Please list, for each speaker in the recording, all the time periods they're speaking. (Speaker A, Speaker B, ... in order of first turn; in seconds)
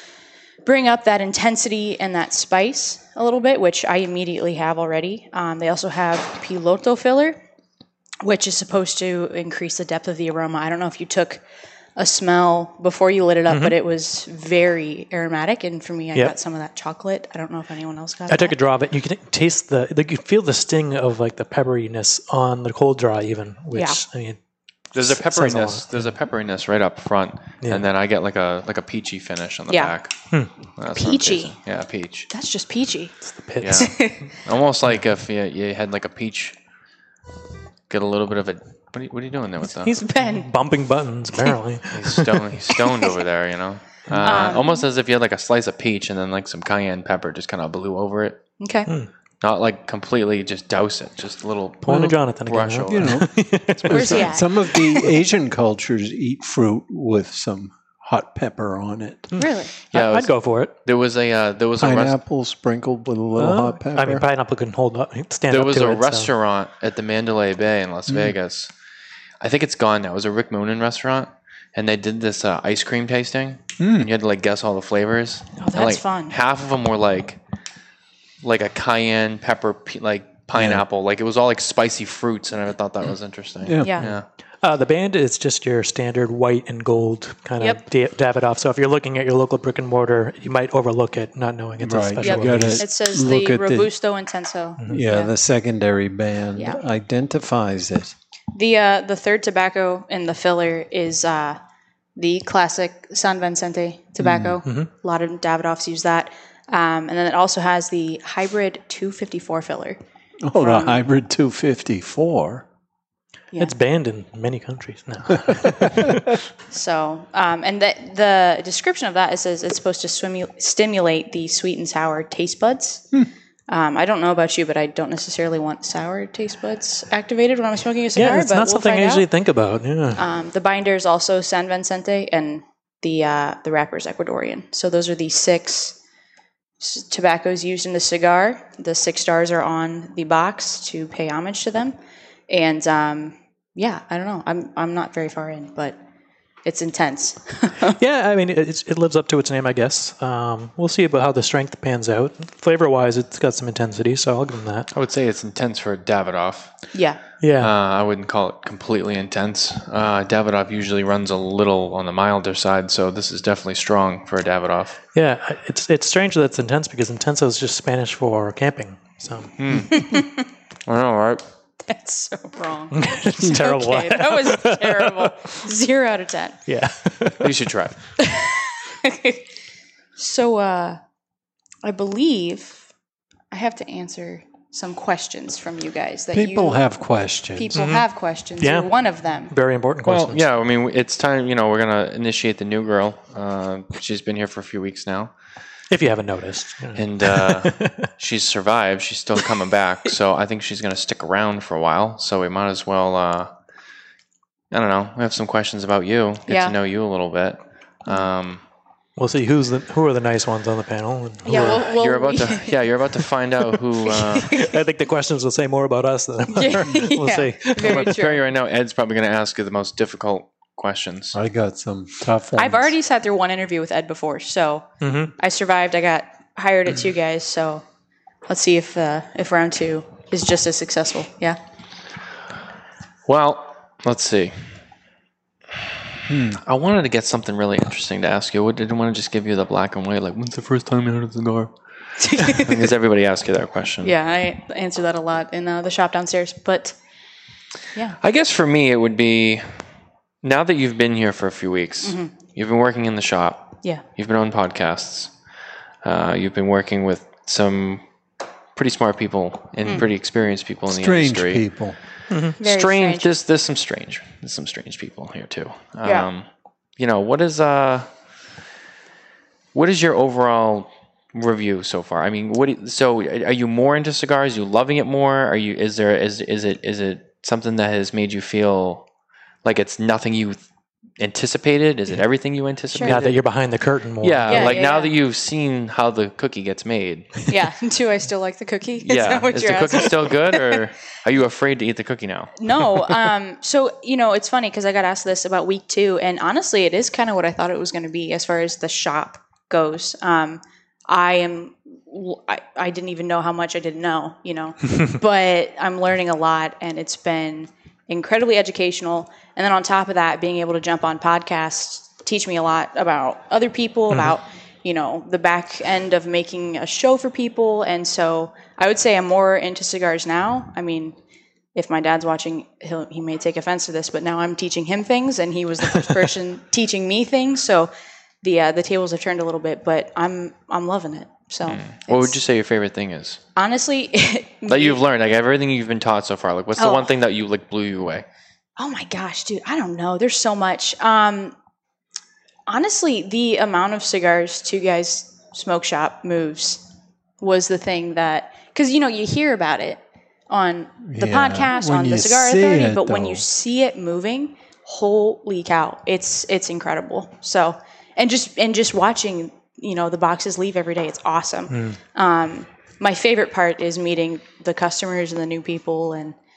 Speaker A: 0.6-7.4, 8.2-11.4, 12.0-18.6, 23.7-24.0, 29.7-29.9, 30.9-31.6, 32.3-33.1, 33.7-34.2, 39.9-40.5, 44.2-44.8, 48.6-48.9, 53.9-54.5, 59.4-59.7, 75.6-76.3, 83.8-84.1, 92.2-95.3, 96.5-96.8, 98.5-101.6, 102.2-110.0, 110.5-111.0, 116.7-123.0, 123.7-129.2, 130.1-136.0, 136.8-141.9, 142.5-146.0, 146.6-148.0, 156.9-157.2, 169.9-170.4, 171.8-176.6, 178.2-179.4, 180.2-181.0, 181.8-182.9, 183.5-186.8, 187.5-189.5, 206.5-206.7, 211.4-212.8, 214.3-214.7, 216.5-218.4, 222.6-227.8, 228.5-231.6, 242.2-242.8, 244.0-246.9, 252.0-252.3, 262.6-263.3, 284.5-285.1, 287.5-290.8, 292.6-321.1, 321.7-327.9, 328.4-332.4, 333.6-335.0, 336.8-337.1, 338.8-341.5, 342.7-346.8, 347.4-366.4
Speaker B: 13.5-13.8, 18.3-24.4, 25.0-26.0, 33.2-33.9, 39.9-42.4, 44.1-44.5, 51.8-55.1, 59.4-60.7, 63.4-66.3, 84.6-92.8, 104.6-104.9, 113.6-116.3, 128.1-130.2, 148.0-154.9, 157.4-157.7, 165.1-169.5, 172.9-175.6, 176.7-177.5, 187.7-188.1, 188.6-188.9, 189.5-190.4, 195.9-198.1, 209.2-211.9, 214.6-218.2, 225.0-225.3, 262.3-262.6, 283.0-284.8, 361.7-362.0
Speaker C: 24.9-30.1, 30.8-32.3, 33.6-36.5, 37.9-40.0, 41.9-48.4, 49.4-53.3, 53.9-54.3, 59.9-62.2, 65.5-68.7, 69.4-77.4, 78.4-84.2, 154.9-156.8, 157.6-165.0, 169.6-170.2, 170.8-171.4, 177.4-178.0, 190.0-195.3, 196.9-203.5, 204.7-208.6, 211.5-214.7, 217.9-221.3, 233.2-234.7, 236.5-241.7, 242.3-244.1, 248.2-249.8, 250.4-255.3, 256.0-258.0, 258.7-261.6, 262.6-266.4, 267.0-268.1, 269.7-279.0, 279.6-280.6, 281.2-283.4, 284.2-287.4, 289.0-292.5, 331.7-333.4, 334.7-338.2
Speaker D: 52.9-59.3, 61.8-64.2, 68.1-68.3, 73.8-74.1, 80.5-80.8, 83.6-84.0, 91.8-93.9, 94.9-98.1, 104.2-104.6, 110.4-112.6, 186.3-187.8, 221.3-222.9, 236.3-236.6, 260.9-262.0, 351.0-353.4